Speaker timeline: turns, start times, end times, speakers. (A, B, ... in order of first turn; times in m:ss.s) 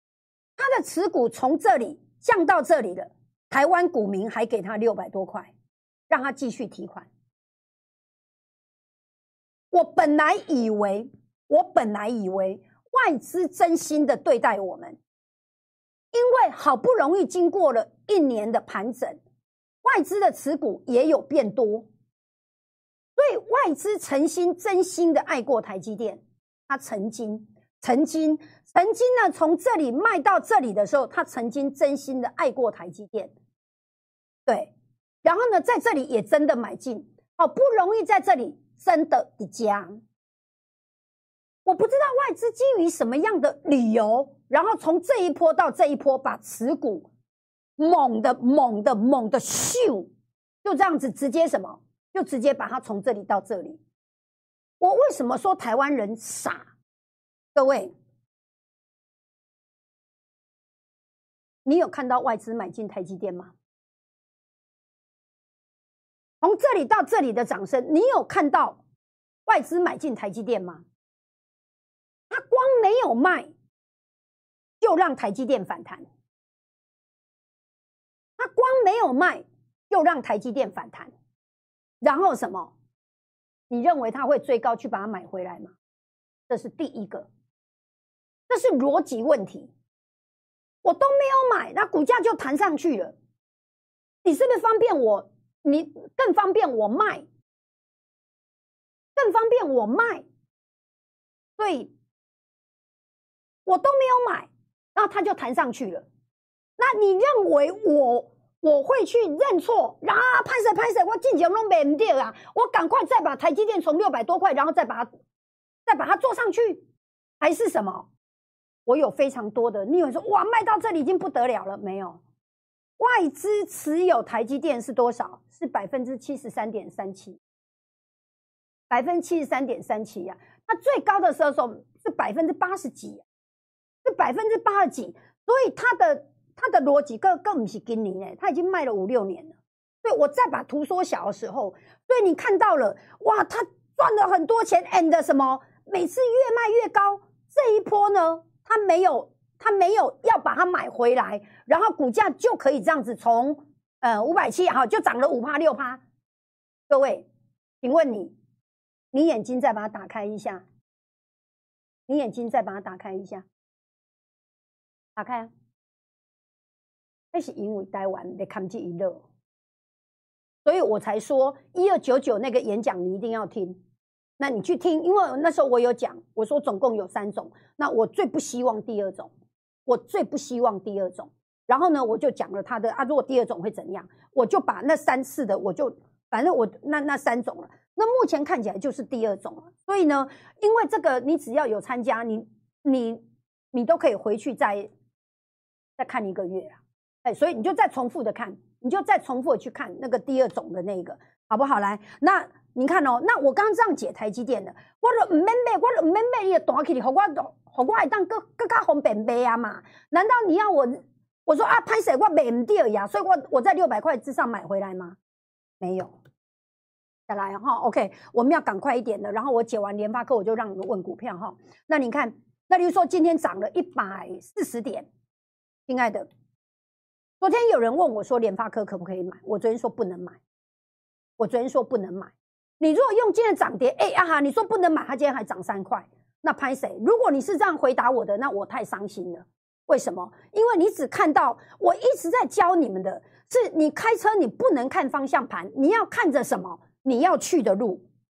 0:00.6-0:05.5 A
0:06.1-0:07.1 A
0:09.7-0:15.0 A
0:16.1-0:19.2 A
0:19.8-0:21.9 A
0:23.2-0:33.3 A
0:34.5-0:34.7 A
0:35.2-0:40.0 A
0:41.6-0:47.1 A
0:47.8-0:50.1 A
0:50.6-0:53.8 A
0:54.8-0:56.6 A
0:57.5-0:57.9 A
1:01.6-1:03.5 A
1:06.4-1:08.8 A
1:09.5-1:10.8 A
1:12.3-1:13.5 A
1:14.8-1:16.0 A
1:18.4-1:21.1 A
1:22.0-1:22.7 A
1:23.7-1:25.7 A
1:26.5-1:27.3 A
1:28.5-1:29.7 A
1:30.8-1:33.1 A
1:34.2-1:37.2 A
1:39.2-1:40.2 A
1:41.6-1:41.9 A
1:43.6-1:46.0 A
1:46.8-1:55.1 A
1:55.9-1:56.8 A
1:57.4-1:58.1 A
1:58.9-2:02.2 A
2:03.0-2:07.4 A
2:08.9-2:13.2 A
2:14.0-2:36.0 A
2:36.9-2:37.3 A
2:37.8-2:38.4 A
2:39.1-2:40.6 A
2:42.1-2:43.5 A
2:45.2-2:45.5 A
2:47.3-2:49.2 A
2:50.6-2:53.8 A
2:54.4-2:59.3 A
2:59.9-3:14.9 A
3:16.0-3:35.2 A
3:35.8-3:36.2 A
3:37.3-3:45.1 A
3:45.9-3:46.3 A
3:47.4-3:50.4 A
3:51.4-4:08.0 A